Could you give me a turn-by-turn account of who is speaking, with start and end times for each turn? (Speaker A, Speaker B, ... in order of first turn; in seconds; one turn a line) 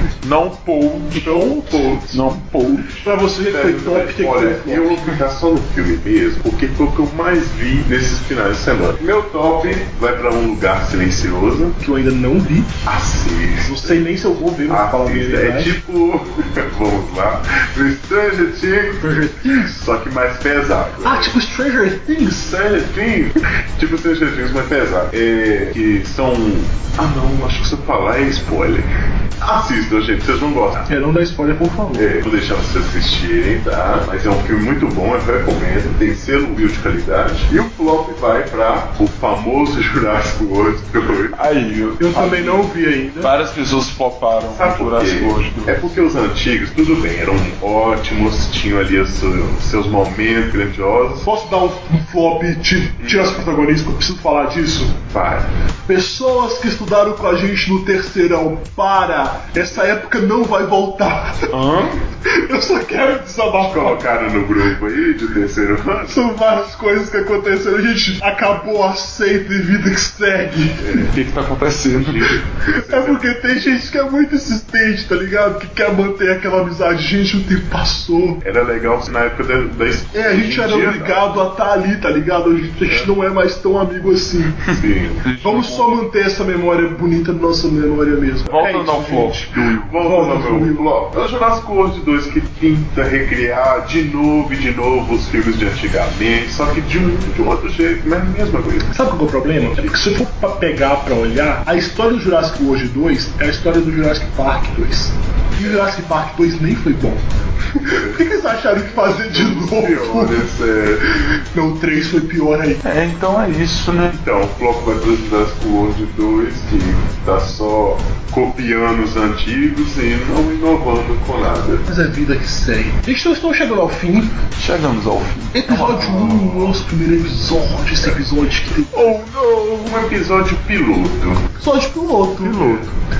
Speaker A: 0.2-2.9
Speaker B: 1.1-2.2
Speaker C: 3.0-5.1
Speaker B: 3.3-11.8
Speaker C: 11.8-12.7
Speaker B: 12.8-14.0
Speaker C: 13.6-15.7
Speaker B: 14.7-21.3
Speaker C: 19.0-19.8
Speaker C: 21.0-22.5
Speaker B: 22.4-28.9
Speaker B: 29.4-30.9
Speaker C: 30.9-32.1
Speaker B: 31.9-41.3
Speaker A: 41.3-46.0
Speaker C: 42.0-43.3
Speaker B: 44.5-51.3
Speaker C: 51.2-55.0
Speaker B: 53.0-53.3
Speaker B: 55.1-55.5
Speaker C: 55.9-61.5
Speaker A: 61.5-62.0
Speaker C: 62.2-64.0
Speaker B: 63.6-66.2
Speaker C: 66.1-71.0
Speaker B: 70.8-71.0
Speaker A: 71.0-72.3
Speaker B: 72.0-73.3
Speaker C: 72.7-78.4
Speaker B: 78.4-81.2
Speaker C: 80.1-84.6
Speaker B: 84.7-85.2
Speaker A: 85.2-86.0
Speaker C: 85.4-89.5
Speaker A: 88.5-89.9
Speaker B: 89.8-98.9
Speaker C: 90.0-90.8
Speaker C: 98.9-107.2
Speaker B: 107.8-108.2
Speaker C: 107.8-110.5
Speaker B: 108.9-111.0
Speaker C: 111.1-112.8
Speaker A: 112.8-114.2
Speaker B: 114.1-121.9
Speaker C: 121.9-124.3
Speaker A: 124.6-126.3
Speaker C: 125.5-129.2
Speaker B: 126.1-126.7
Speaker A: 128.9-129.8
Speaker B: 129.7-131.5
Speaker C: 131.6-132.8
Speaker A: 132.4-132.9
Speaker B: 132.6-132.9